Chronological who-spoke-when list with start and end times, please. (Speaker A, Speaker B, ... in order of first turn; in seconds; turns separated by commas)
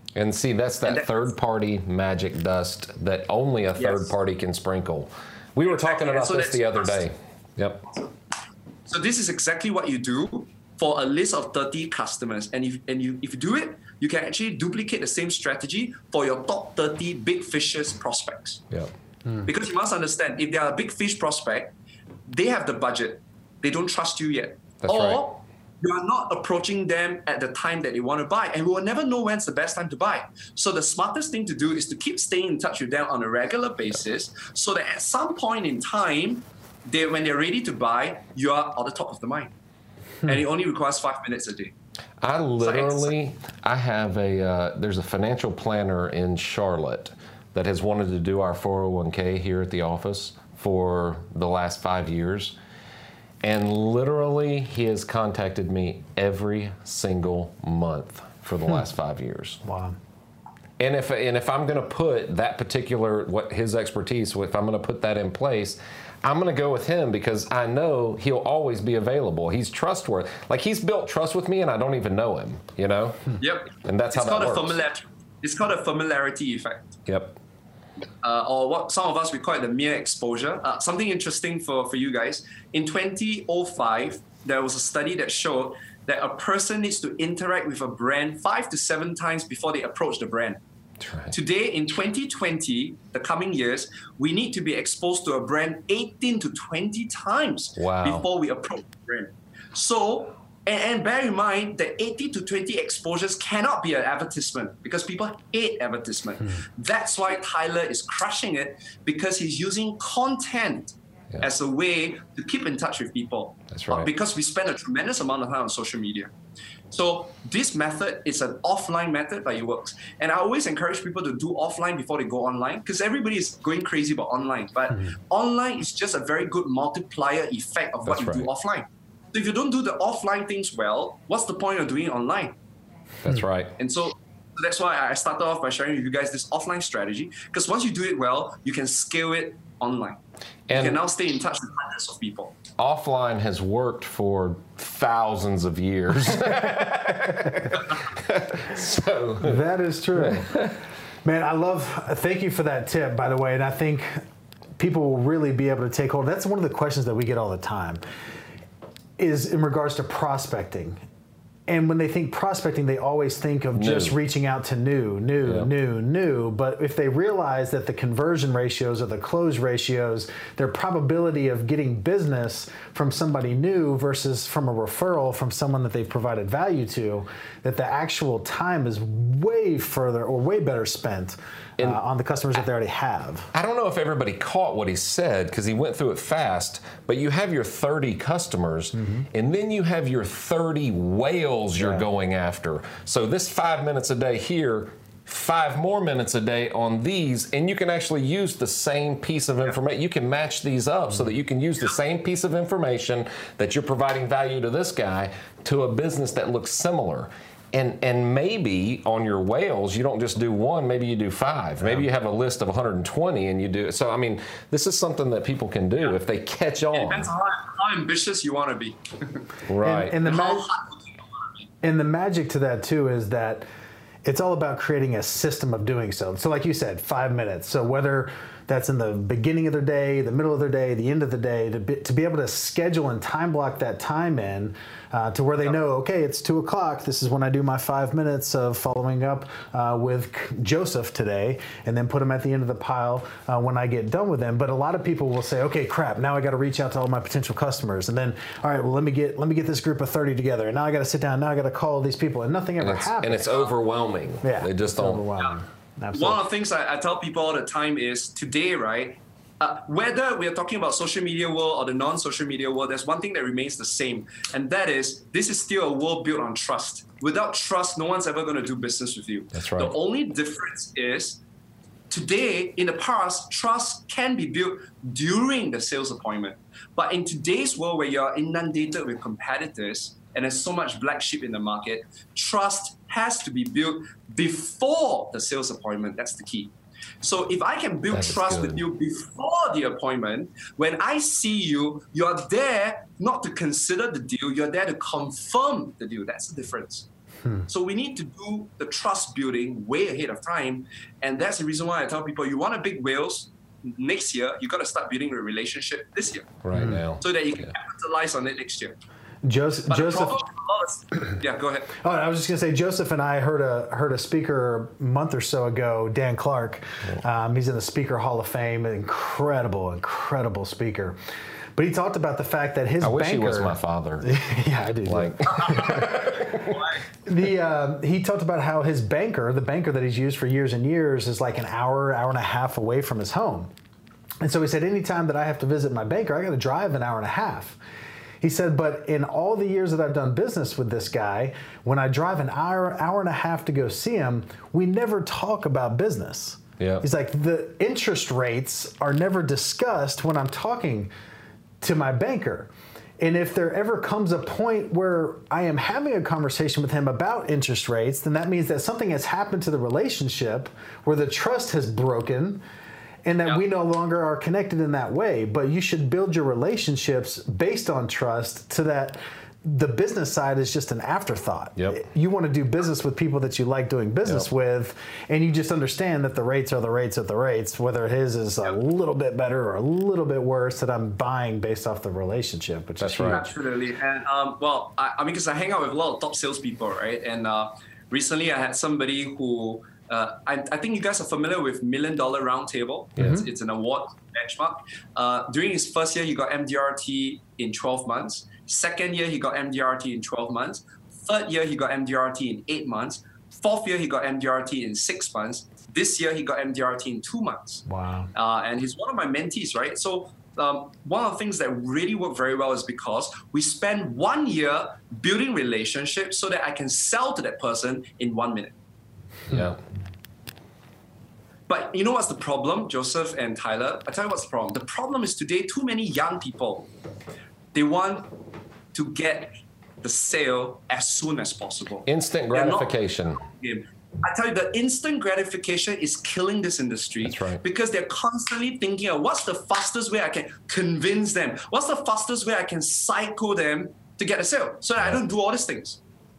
Speaker A: 0.1-7.9, Speaker B: 0.8-1.2, Speaker B: 3.8-4.1, Speaker B: 5.6-7.1, Speaker B: 8.9-18.6, Speaker B: 19.4-21.7, Speaker B: 22.3-39.5, Speaker A: 24.8-25.2, Speaker B: 40.2-41.7, Speaker A: 42.2-52.5, Speaker B: 42.6-43.1, Speaker A: 53.4-59.6, Speaker C: 59.6-60.0, Speaker A: 60.8-74.7, Speaker B: 73.4-77.0, Speaker A: 77.1-77.4, Speaker B: 78.2-90.6, Speaker A: 91.0-91.3, Speaker B: 91.3-116.3, Speaker A: 97.8-98.2, Speaker A: 113.7-114.1, Speaker B: 116.9-132.5, Speaker A: 128.1-128.5, Speaker A: 133.2-133.7, Speaker B: 133.8-142.5, Speaker A: 140.7-141.0, Speaker A: 142.8-149.6, Speaker C: 149.4-150.7, Speaker A: 150.2-150.8, Speaker C: 151.2-154.1, Speaker C: 154.8-158.0, Speaker C: 159.2-161.0, Speaker C: 161.7-183.5, Speaker A: 163.8-164.2, Speaker A: 165.4-165.7, Speaker A: 183.5-217.3, Speaker C: 188.9-189.2, Speaker C: 191.8-192.1, Speaker B: 216.9-219.5, Speaker A: 219.7-220.2, Speaker C: 219.8-220.7, Speaker B: 220.2-221.7, Speaker C: 221.8-223.6, Speaker C: 224.2-253.6, Speaker A: 252.8-255.2, Speaker C: 254.4-256.4, Speaker B: 256.1-271.4, Speaker A: 269.5-269.9, Speaker B: 272.1-297.1, Speaker A: 288.1-288.8, Speaker B: 297.7-306.6, Speaker A: 306.6-307.6, Speaker C: 306.7-307.0, Speaker B: 307.2-309.0, Speaker C: 309.4-310.4, Speaker B: 309.8-311.9, Speaker C: 311.9-321.2, Speaker C: 321.8-326.1, Speaker A: 323.0-324.4, Speaker A: 325.1-326.7, Speaker B: 325.5-327.0, Speaker C: 327.2-333.7, Speaker C: 334.4-337.8, Speaker C: 338.4-351.1, Speaker A: 346.8-347.0, Speaker C: 351.8-362.6, Speaker C: 363.2-383.5, Speaker A: 383.0-383.4, Speaker B: 383.3-418.7, Speaker C: 393.2-393.4, Speaker C: 407.9-408.3, Speaker A: 419.5-419.8, Speaker B: 421.7-426.9, Speaker B: 427.7-428.3, Speaker B: 428.9-446.0, Speaker A: 432.1-433.4, Speaker A: 437.2-437.6